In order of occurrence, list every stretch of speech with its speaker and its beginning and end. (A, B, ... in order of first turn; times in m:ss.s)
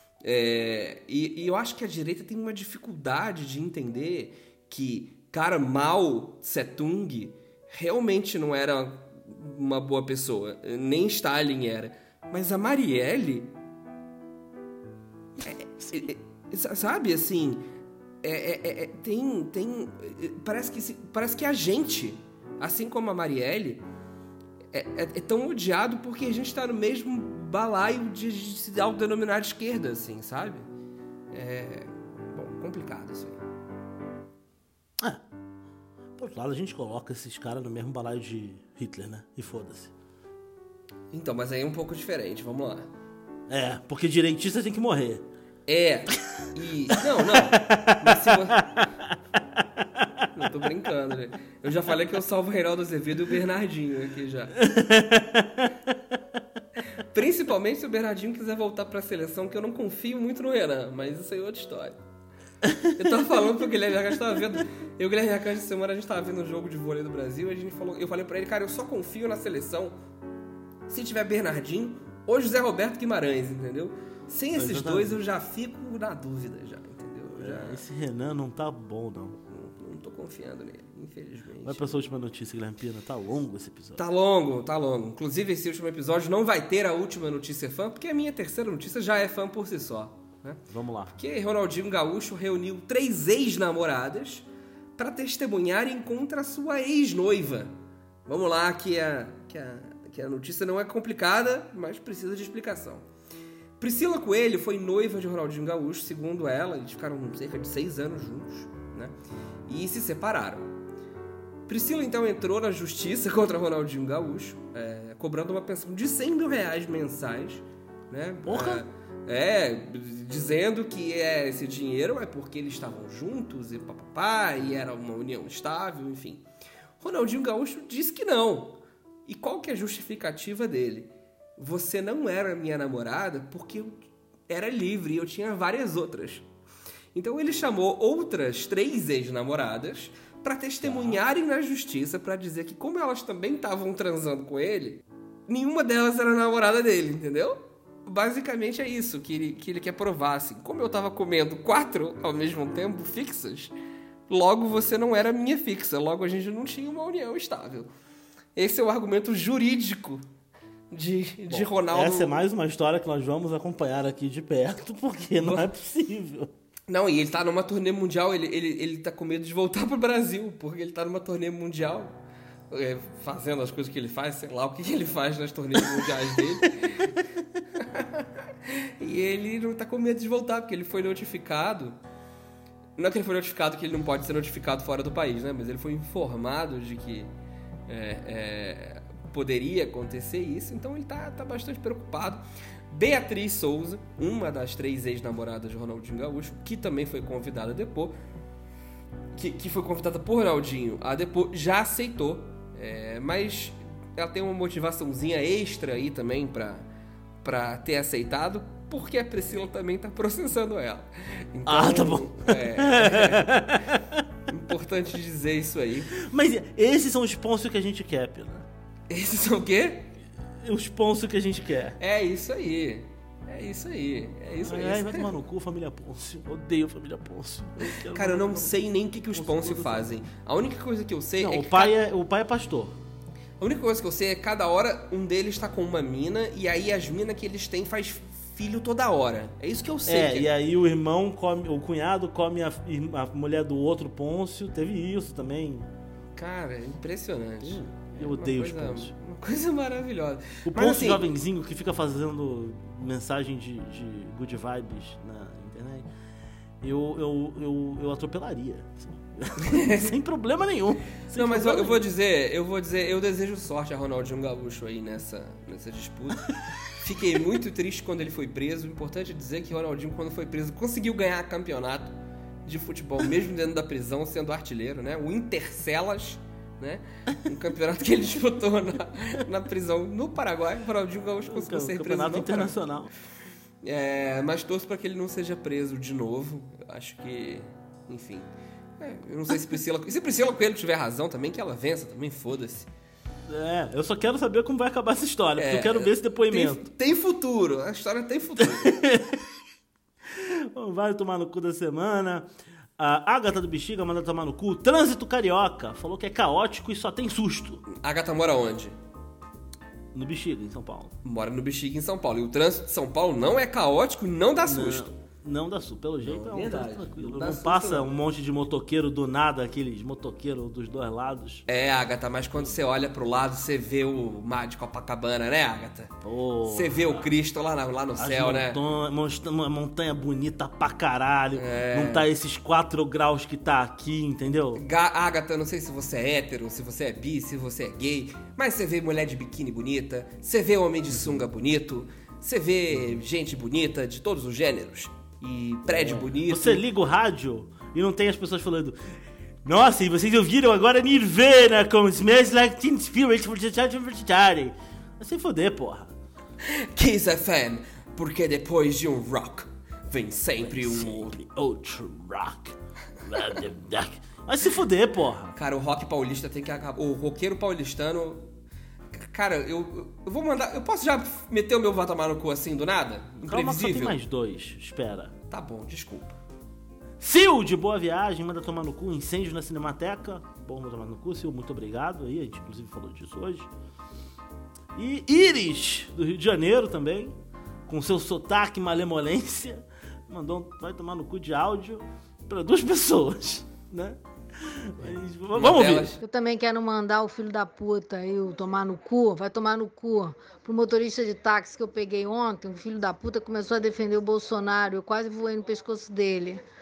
0:00.2-0:13.5 A
0:15.4-0:17.6 A
0:18.2-0:23.8 A
0:24.7-0:30.6 A
0:31.3-0:33.4 A
0:36.2-0:39.9 B
0:41.1-0:42.9 A
0:43.5-0:45.2 B
0:45.6-0:48.7 A
0:47.2-0:49.1 B
0:50.3-0:54.5 A
0:54.6-0:55.7 B
0:57.0-1:02.0 A
1:02.6-1:03.0 B
1:02.9-1:10.0 A
1:10.9-1:17.8 A
1:14.5-1:15.2 B
1:17.4-1:19.4 B
1:19.5-1:22.0 A
1:21.6-1:24.0 B
1:24.0-1:30.6 A
1:30.7-1:31.2 B
1:31.1-1:37.7 A
1:38.2-1:43.1 A
1:43.8-1:49.2 A
1:49.7-1:50.7 A
1:51.7-2:06.4 A
1:58.4-1:58.8 B
2:07.0-2:14.0 A
2:14.5-2:16.5 A
2:17.1-2:33.7 A
2:20.8-2:21.2 B
2:34.3-2:37.9 A
2:38.6-2:40.2 A
2:40.9-2:42.3 A
2:41.5-2:46.5 B
2:45.4-2:45.7 A
2:46.9-2:52.2 A
2:52.7-2:57.2 A
2:57.8-3:02.0 A
3:03.0-3:07.3 A
3:07.9-3:18.1 A
3:19.3-3:26.8 A
3:27.4-3:33.6 A
3:31.6-3:34.2 B
3:34.5-3:36.1 A
3:36.1-3:38.7 B
3:39.1-3:40.1 A
3:40.6-3:42.0 B
3:42.0-3:45.3 A
3:44.6-3:50.2 B
3:48.1-3:51.9 A
3:51.4-3:53.0 B
3:53.6-4:00.5 A
4:00.1-4:05.9 B
4:06.3-4:11.3 A
4:07.6-4:09.1 B
4:10.6-4:16.0 B
4:16.8-4:22.0 B
4:19.6-4:20.1 A
4:21.3-4:42.8 A
4:41.4-4:43.1 B
4:43.8-4:48.5 A
4:49.0-4:52.9 A
4:53.5-4:56.8 B
4:55.6-4:59.0 A
4:58.6-4:59.4 B
5:00.3-5:02.5 B
5:03.0-5:07.8 B
5:07.8-5:09.0 A
5:10.1-5:11.1 B
5:11.2-5:15.1 A
5:14.6-5:21.6 B
5:16.2-5:18.1 A
5:21.7-5:26.1 A
5:26.2-5:27.2 B
5:26.6-5:28.8 A
5:28.2-5:34.8 B
5:31.5-5:32.3 A
5:34.7-5:46.8 A
5:45.9-5:49.0 B
5:49.6-5:56.1 B
5:56.6-6:01.4 A
6:00.6-6:05.6 B
6:05.6-6:08.4 A
6:09.1-6:14.2 A
6:13.3-6:15.3 B
6:15.5-6:16.4 A
6:17.2-6:23.7 B
6:24.9-6:27.3 B
6:27.9-6:36.1 B
6:35.6-6:36.2 A
6:36.2-6:46.6 C